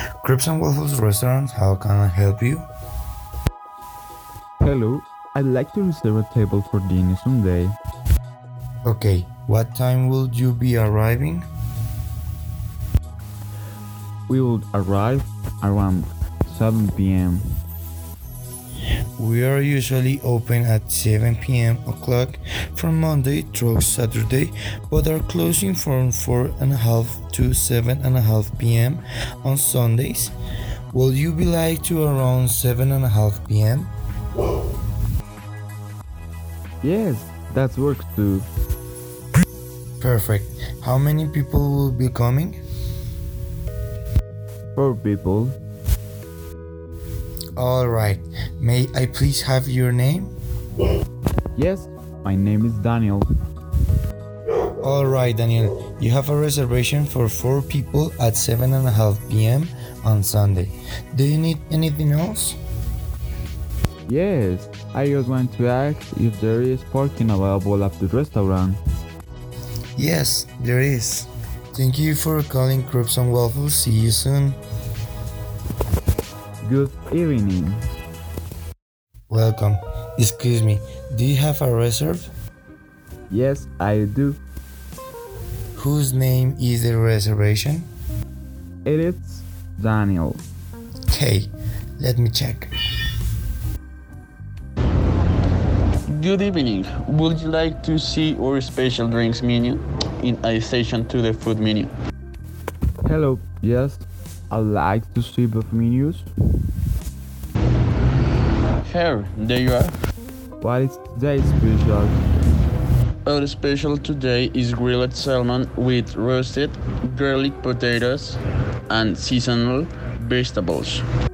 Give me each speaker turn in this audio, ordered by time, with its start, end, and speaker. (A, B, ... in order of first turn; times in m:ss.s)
0:00.2-0:02.6 A
0:04.6-0:07.8 B
0:08.8-0:11.4 A
0:14.3-0:17.5 B
0:19.2-0:30.3 A
0:30.9-0:33.9 A
0:36.8-0:38.5 B
0:40.0-0:42.6 A
0:44.8-0:45.6 B
0:47.6-0:50.3 A
0:51.5-0:53.3 B
0:54.8-1:02.6 A
1:04.1-1:08.8 B
1:10.0-1:14.6 A
1:16.6-1:17.8 B
1:19.3-1:22.3 A
1:23.3-1:24.4 B
1:25.8-1:27.9 A
1:28.8-1:30.4 B
1:31.1-1:32.7 A
1:36.1-1:41.9 C
1:43.0-1:46.3 B
1:48.8-1:49.9 C
1:50.6-1:52.2 B
1:53.2-1:58.4 C
1:58.9-2:01.0 C